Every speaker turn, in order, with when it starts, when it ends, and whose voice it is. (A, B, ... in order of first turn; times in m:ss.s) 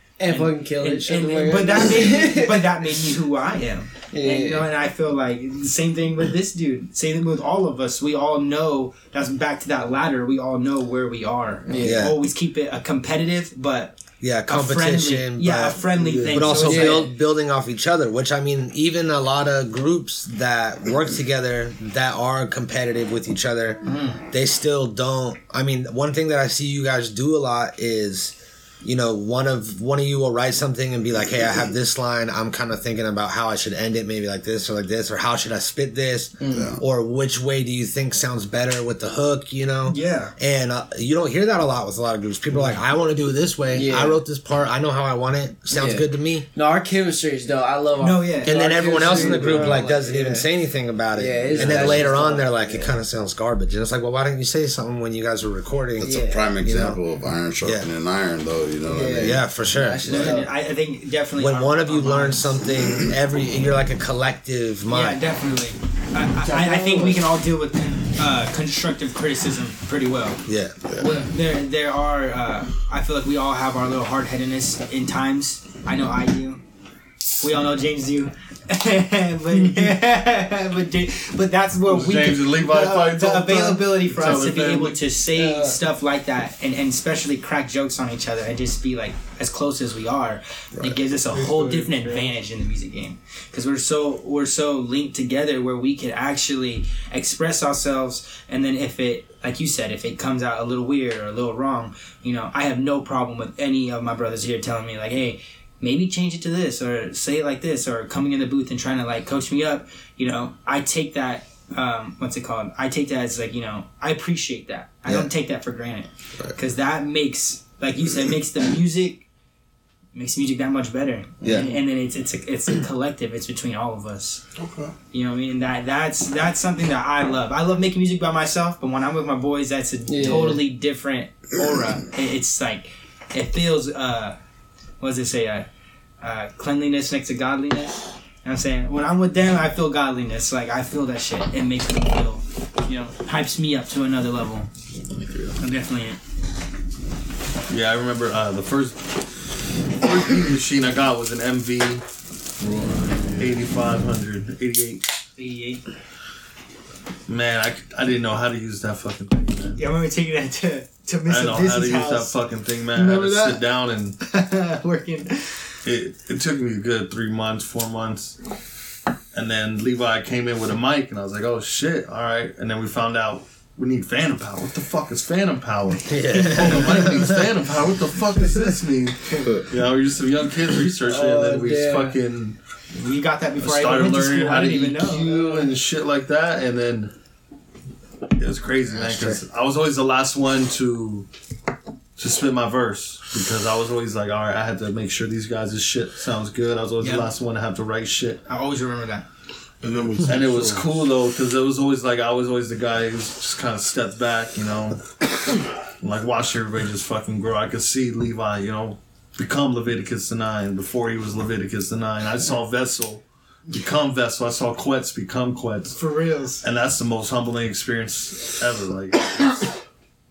0:00.2-0:02.6 A
0:00.2-0:17.1 B
0:04.1-0:04.7 A
0:11.7-0:12.0 A
0:11.8-0:12.2 C
0:14.2-0:46.5 C
0:16.0-0:16.4 D
0:16.6-0:17.1 A
0:23.8-0:24.2 B
0:36.4-0:36.7 A
0:36.5-0:36.8 E
0:39.8-0:40.3 B
0:43.7-0:44.2 A
0:45.7-0:50.5 A
0:48.0-0:49.8 B
0:48.4-0:57.0 C
0:51.1-0:52.9 A
0:56.0-0:59.4 E
0:56.0-0:56.5 A
0:57.6-0:57.9 C
0:58.8-1:00.5 A
0:59.2-1:00.4 C
1:00.0-1:02.6 B
1:01.4-1:05.2 C
1:04.9-1:10.4 B
1:06.4-1:07.2 A
1:10.5-1:10.7 C
1:10.9-1:11.3 E
1:11.0-1:16.6 B
1:17.3-1:59.2 B
1:21.9-1:25.0 F
1:25.3-1:25.8 A
1:31.4-1:31.9 F
2:00.1-2:04.4 B
2:01.4-2:01.7 C
2:04.6-2:04.9 D
2:05.1-2:14.4 B
2:10.1-2:10.6 A
2:15.0-2:15.7 B
2:16.2-2:24.7 B
2:25.2-2:25.5 E
2:25.6-2:26.2 B
2:27.7-2:29.1 F
2:30.0-2:32.0 F
2:32.6-2:33.5 D
2:33.4-2:35.0 F
2:35.4-2:35.8 B
2:37.3-2:39.8 F
2:39.8-2:42.3 B
2:41.3-2:44.2 F
2:42.9-2:43.6 B
2:44.2-2:45.7 B
2:45.8-2:48.4 F
2:49.3-3:02.6 F
2:56.1-2:57.4 C
2:56.3-2:57.1 B
3:01.0-3:02.2 A
3:02.9-3:05.4 B
3:03.6-3:07.1 F
3:05.1-3:05.7 A
3:08.4-3:11.3 F
3:08.9-3:09.4 C
3:12.2-3:18.4 F
3:17.0-3:17.3 B
3:18.4-3:19.2 B
3:19.8-3:20.9 D
3:20.2-3:25.0 F
3:26.0-3:36.0 F
3:35.9-3:36.6 B
3:36.6-3:39.8 F